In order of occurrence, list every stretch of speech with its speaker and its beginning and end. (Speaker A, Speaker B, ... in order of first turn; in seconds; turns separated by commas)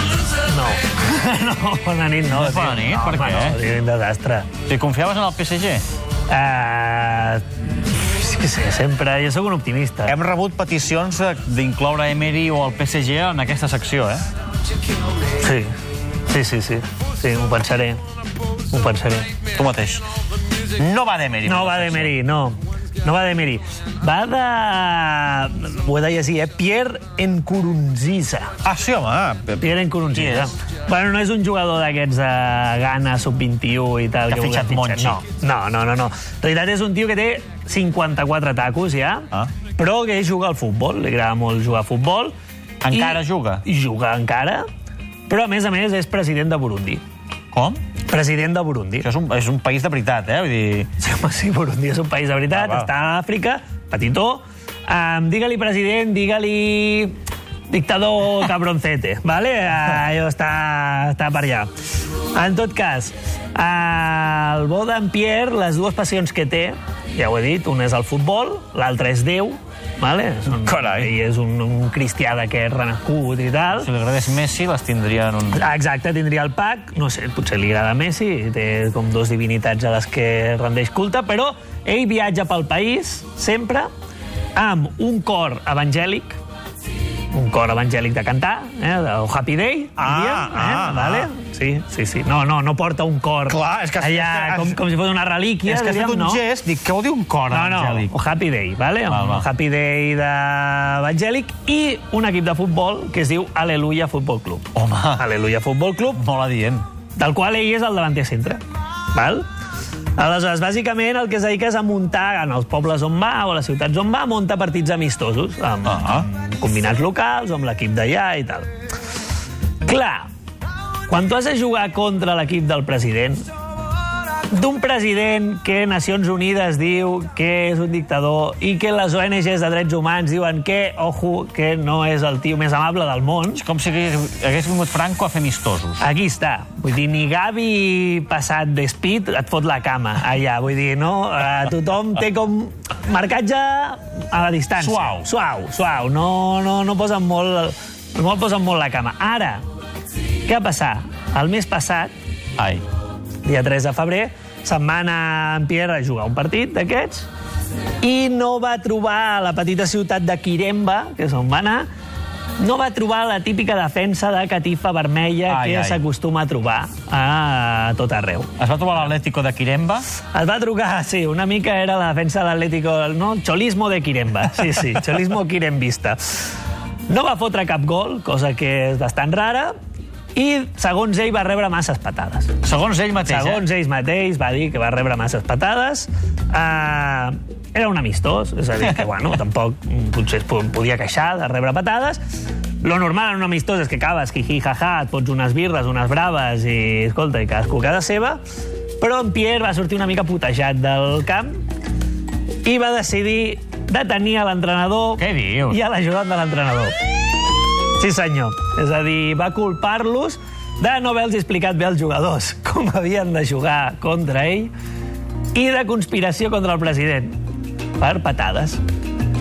Speaker A: 0.4-4.5, Speaker B: 2.3-3.6, Speaker B: 4.7-5.8, Speaker A: 6.3-10.2, Speaker B: 10.1-14.2, Speaker A: 15.4-15.7, Speaker A: 16.3-18.0, Speaker A: 18.7-19.3, Speaker B: 19.5-20.1, Speaker B: 20.6-22.1, Speaker A: 21.5-28.6, Speaker B: 28.6-30.5, Speaker A: 29.6-42.3, Speaker B: 34.3-35.2, Speaker B: 42.8-43.6, Speaker A: 42.9-44.6, Speaker A: 45.3-47.0, Speaker B: 47.5-47.8, Speaker A: 48.1-49.1, Speaker B: 49.0-50.9, Speaker A: 51.0-57.2, Speaker B: 52.5-52.9, Speaker A: 57.7-61.7, Speaker A: 62.3-73.9, Speaker B: 70.6-71.1, Speaker B: 73.8-75.6, Speaker A: 75.5-83.9, Speaker A: 84.6-86.4, Speaker A: 87.3-96.4, Speaker B: 90.0-91.3, Speaker B: 93.5-94.8, Speaker B: 95.7-98.1, Speaker A: 97.5-106.2, Speaker B: 99.1-99.5, Speaker B: 104.7-105.2, Speaker B: 106.2-106.8, Speaker A: 107.2-108.6, Speaker A: 109.1-109.5, Speaker A: 110.2-118.7, Speaker B: 115.8-116.3, Speaker A: 119.8-120.3, Speaker A: 121.1-123.5, Speaker A: 124.5-133.6, Speaker B: 133.6-136.0, Speaker A: 136.0-149.6, Speaker B: 144.8-145.3, Speaker A: 150.5-152.1, Speaker B: 152.6-152.8, Speaker A: 153.4-157.3, Speaker A: 158.0-161.9, Speaker A: 162.6-168.5, Speaker B: 165.5-166.0, Speaker B: 168.6-170.1, Speaker A: 170.3-176.4, Speaker A: 177.1-179.7, Speaker A: 180.3-182.6, Speaker B: 182.6-183.6, Speaker A: 183.2-192.2, Speaker A: 192.8-198.4, Speaker A: 199.0-201.5, Speaker A: 202.6-206.9, Speaker B: 205.2-205.8, Speaker A: 208.0-214.7, Speaker A: 215.5-217.4, Speaker A: 218.0-218.8